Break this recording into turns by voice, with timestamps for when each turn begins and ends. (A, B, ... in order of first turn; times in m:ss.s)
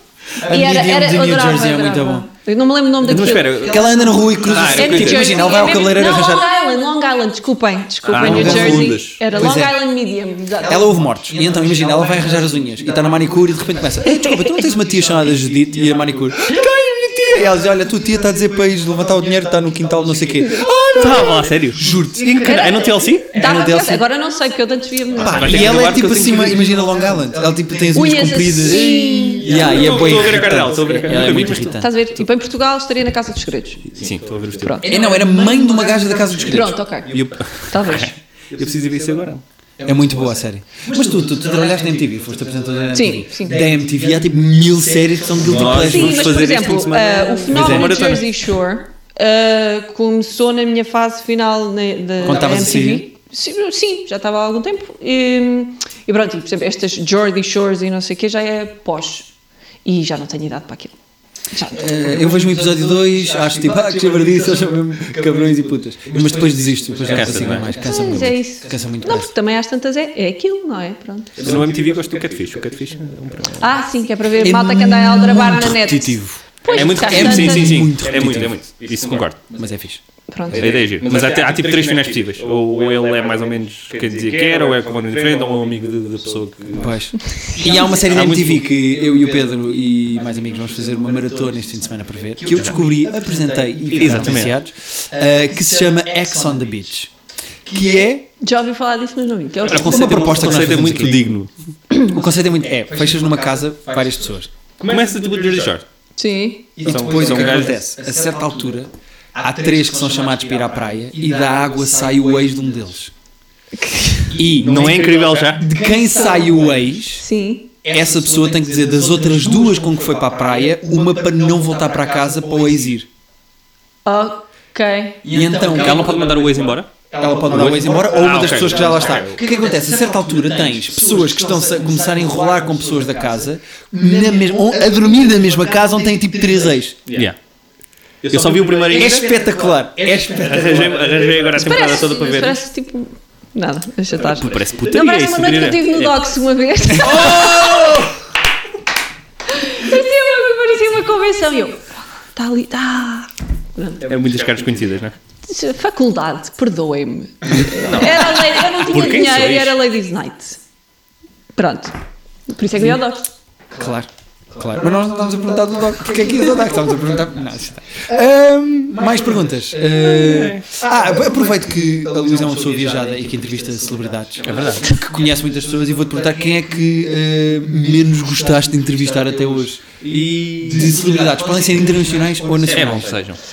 0:00.4-0:02.3 A
0:00.4-0:11.0 B
0:03.0-0:05.6 C
0:03.4-0:06.5 A
0:08.0-0:09.2 C
0:08.1-0:09.8 A
0:10.6-0:22.6 A
0:20.5-0:23.3 C
0:20.6-0:21.4 B
0:22.4-0:25.8 B
0:23.3-0:24.0 A
0:25.1-0:31.9 A
0:25.2-0:26.7 C
0:27.9-0:29.7 B
0:29.4-0:31.8 C
0:31.8-0:33.9 B
0:33.9-0:34.8 C
0:34.6-0:34.9 B
0:34.8-0:37.2 A
0:36.4-0:38.2 B
0:37.1-0:39.4 C
0:39.8-0:46.4 A
0:42.9-0:43.5 B
0:45.4-0:48.3 C
0:45.7-0:59.3 B
0:47.5-0:48.1 A
0:52.2-0:53.1 A
0:59.8-1:01.0 B
1:01.5-1:01.8 B
1:01.7-1:09.3 A
1:07.0-1:07.7 C
1:07.8-1:11.3 B
1:11.4-1:13.6 C
1:13.6-1:17.8 B
1:14.4-1:18.6 A
1:16.7-1:19.4 C
1:19.5-1:20.0 A
1:20.3-1:20.7 B
1:20.5-1:28.6 C
1:26.8-1:37.1 A
1:33.9-1:34.5 C
1:37.6-1:38.3 A
1:38.4-1:40.3 B
1:39.6-1:41.4 A
1:39.6-1:41.5 C
1:42.0-1:44.5 A
1:44.8-1:45.8 C
1:46.2-1:46.7 B
1:46.8-1:53.1 A
1:46.8-1:47.8 C
1:53.8-1:54.3 B
1:54.3-1:57.2 A
1:54.4-1:55.6 C
1:57.2-1:57.7 B
1:57.8-2:03.1 A
2:04.0-2:05.2 B
2:05.2-2:06.2 A
2:05.6-2:06.9 C
2:07.1-2:17.0 A
2:07.5-2:09.3 C
2:17.1-2:17.4 C
2:18.2-2:19.3 C
2:18.9-2:20.9 A
2:20.4-2:22.6 C
2:21.5-2:28.0 B
2:24.2-2:26.2 C
2:27.0-2:28.1 A
2:29.5-2:34.0 B
2:34.0-2:35.1 C
2:35.4-2:40.6 B
2:37.7-2:39.8 C
2:41.5-2:42.0 B
2:42.5-2:43.3 B
2:43.7-3:03.2 A
2:50.1-2:50.7 C
2:54.4-2:55.0 C
3:02.7-3:03.4 C